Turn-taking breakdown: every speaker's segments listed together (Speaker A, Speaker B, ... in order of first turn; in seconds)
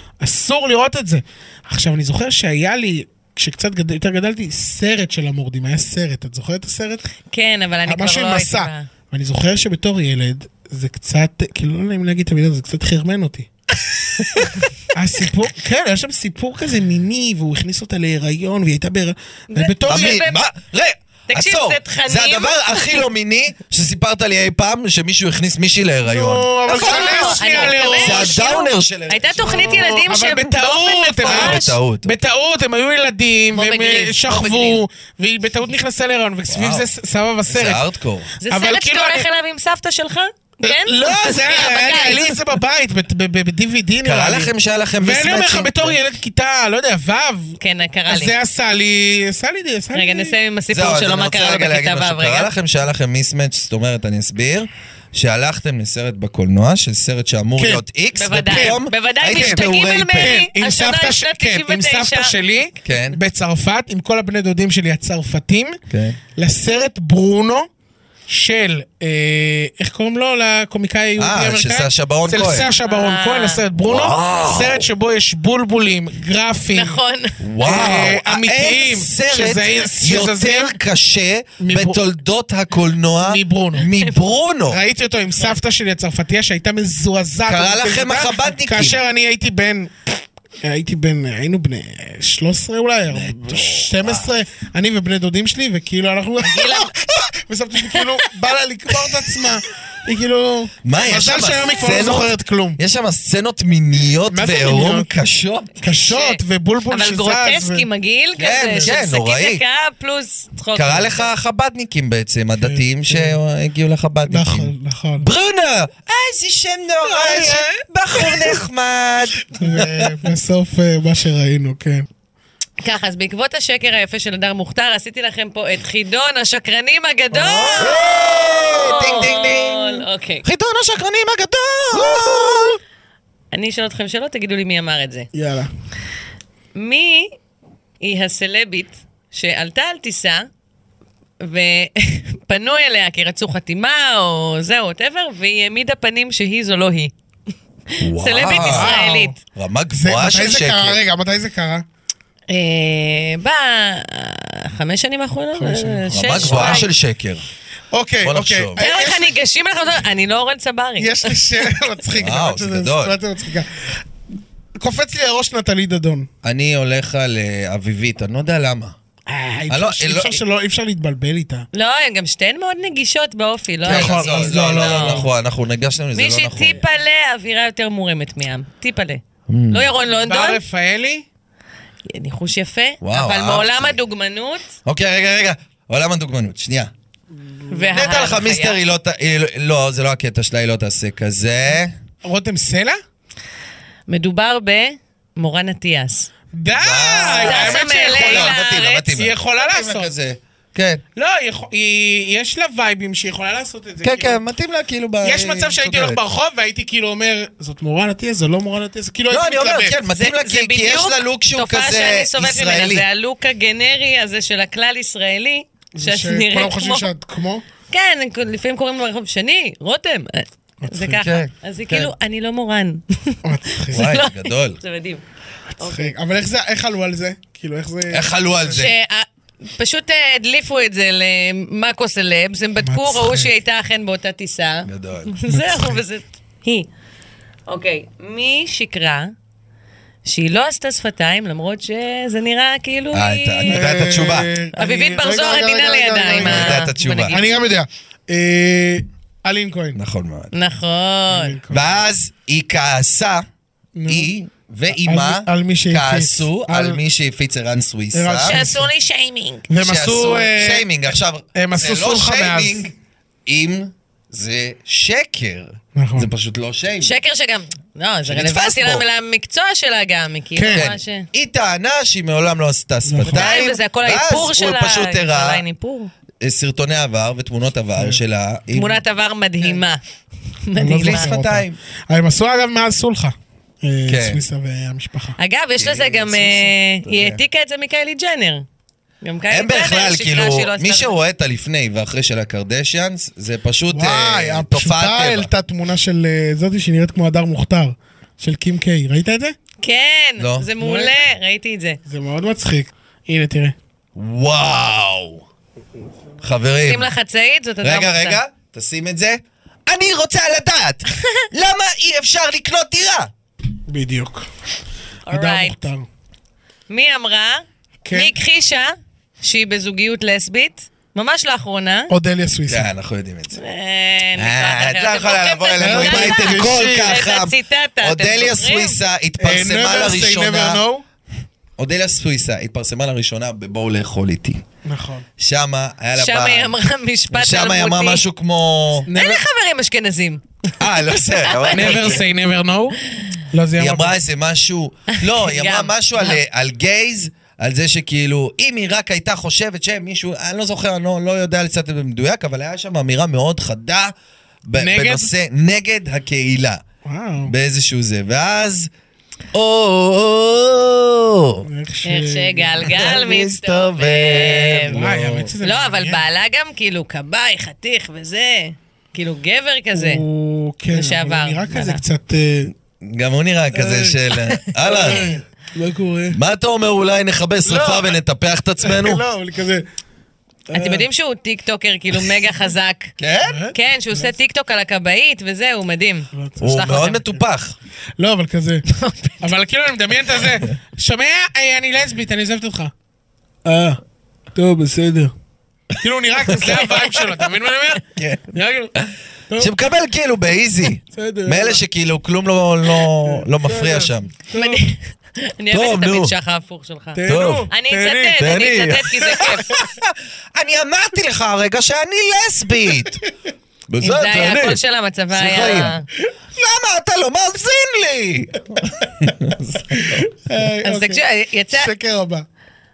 Speaker A: 0.2-7.1, 7.8-13.5, 14.2-20.2, 26.1-28.3, 29.5-37.8, 38.5-39.2, 40.6-50.3, 57.6-57.8, 58.5-58.8, 59.3-59.6, 60.2-65.8, 66.3-67.7, 68.3-77.0, 77.6-80.8, 81.6-82.0, 83.2-83.8, 84.7-89.9, 90.6-102.8, 104.3-105.1, 105.8-107.8, 112.6-113.3, 114.3-115.3, 117.0-118.5, 119.5-122.1, 132.0-132.4, 135.3-135.7, 148.5-149.3, 149.9-151.8, 155.6-156.8, 157.9-159.3, 161.0-164.0, 164.8-166.3, 169.3-171.7, 173.8-175.3, 180.2-181.2, 192.2-193.0, 196.5-200.1, 201.2-204.4, 205.2-210.0, 215.9-217.6, 220.8-221.2, 223.4-224.1, 225.7-228.8, 232.8-233.5, 235.5-236.0, 243.7-250.0, 251.3-251.9, 253.9-254.3, 254.9-257.0, 258.1-258.9, 259.7-260.9, 261.5-262.9, 265.9-266.3, 270.5-270.8, 273.1-273.4, 280.8-285.4, 293.9-299.5, 300.8-301.1, 302.1-303.7, 313.9-314.4, 315.3-316.1, 318.0-318.3, 322.1-322.9, 325.8-327.2, 329.4-331.0, 334.8-335.2, 339.1-339.4, 341.7-342.9, 343.5-344.2, 354.8-355.3, 357.0-357.5, 361.6-363.0, 364.9-366.2, 369.9-372.7, 373.7-374.2, 374.8-376.4, 377.6-378.1, 378.8-379.9, 380.7-381.1, 383.5-384.3, 386.3-386.8, 388.2-388.8, 389.4-392.9, 393.6-394.0, 394.5-395.3, 396.0-398.9, 401.1-401.8, 403.2-404.8, 407.1-408.2, 419.9-421.2, 421.7-422.4
Speaker B: 7.3-8.9, 19.5-20.4, 21.3-23.0, 26.7-31.7, 33.5-34.8, 38.4-42.4, 47.6-48.3, 49.9-52.5, 58.1-62.3, 72.8-73.6, 76.7-77.4, 83.9-84.2, 96.4-96.9, 106.0-106.4, 106.9-111.2, 122.8-130.4, 133.5-135.3, 136.7-137.3, 138.0-140.5, 141.4-147.1, 147.9-149.3, 152.5-156.9, 158.8-161.4, 171.7-175.2, 176.1-180.6, 182.1-184.7, 187.7-188.8, 194.1-196.3, 197.3-199.1, 210.1-217.1, 217.9-225.2, 225.8-226.1, 228.8-236.9, 237.7-239.3, 240.2-243.9, 244.8-247.4, 250.5-251.6, 258.4-259.7, 267.0-271.3, 273.2-276.1, 278.7-280.0, 280.6-281.3, 285.4-288.6, 289.2-291.1, 299.8-302.0, 306.8-308.4, 315.3-315.8, 316.9-322.1, 323.6-328.9, 336.1-338.2, 339.1-340.4, 341.2-342.2, 345.1-346.4, 362.1-365.0, 365.6-370.2, 370.9-372.0, 380.7-383.1, 383.7-387.2, 388.9-389.4, 404.5-409.8, 414.0-416.0, 420.8-421.9
Speaker C: 19.9-30.1, 31.2-32.1, 36.5-36.9, 37.5-38.3, 44.0-46.0, 50.7-60.4, 62.8-63.2, 65.9-66.2, 71.2-72.7, 73.8-74.9, 77.4-84.8, 87.5-89.0, 93.1-94.3, 100.8-105.8, 108.4-109.6, 110.7-120.1, 127.3-132.8, 148.0-148.9, 149.5-151.0, 156.1-157.4, 158.2-158.8, 162.2-163.2, 166.4-168.9, 169.7-170.4, 173.8-176.8, 179.5-179.9, 183.0-184.0, 184.8-186.9, 187.9-191.9, 196.7-201.0, 204.0-206.2, 209.3-213.1, 221.0-222.1, 223.9-224.8, 228.1-228.9, 234.8-235.3, 243.1-244.5, 246.4-247.4, 249.9-250.5, 251.7-253.4, 254.1-258.6, 259.7-262.9, 263.4-267.1, 268.2-269.0, 270.7-275.6, 276.4-279.0, 281.0-281.8, 284.1-284.4, 285.8-287.4, 289.5-295.5, 300.4-300.7, 304.1-305.4, 306.4-307.1, 307.8-313.3, 322.7-323.6, 324.3-330.8, 331.8-334.6, 335.4-336.7, 337.3-339.1, 340.8-342.2, 343.8-354.1, 354.7-356.8, 357.4-358.9, 359.5-361.6, 362.8-365.5, 373.0-375.3, 376.3-379.2, 383.2-383.6, 386.6-387.7, 396.5-396.9, 398.1-404.3, 405.7-406.3, 407.2-413.2, 413.9-414.8, 415.3-416.0, 416.5-420.2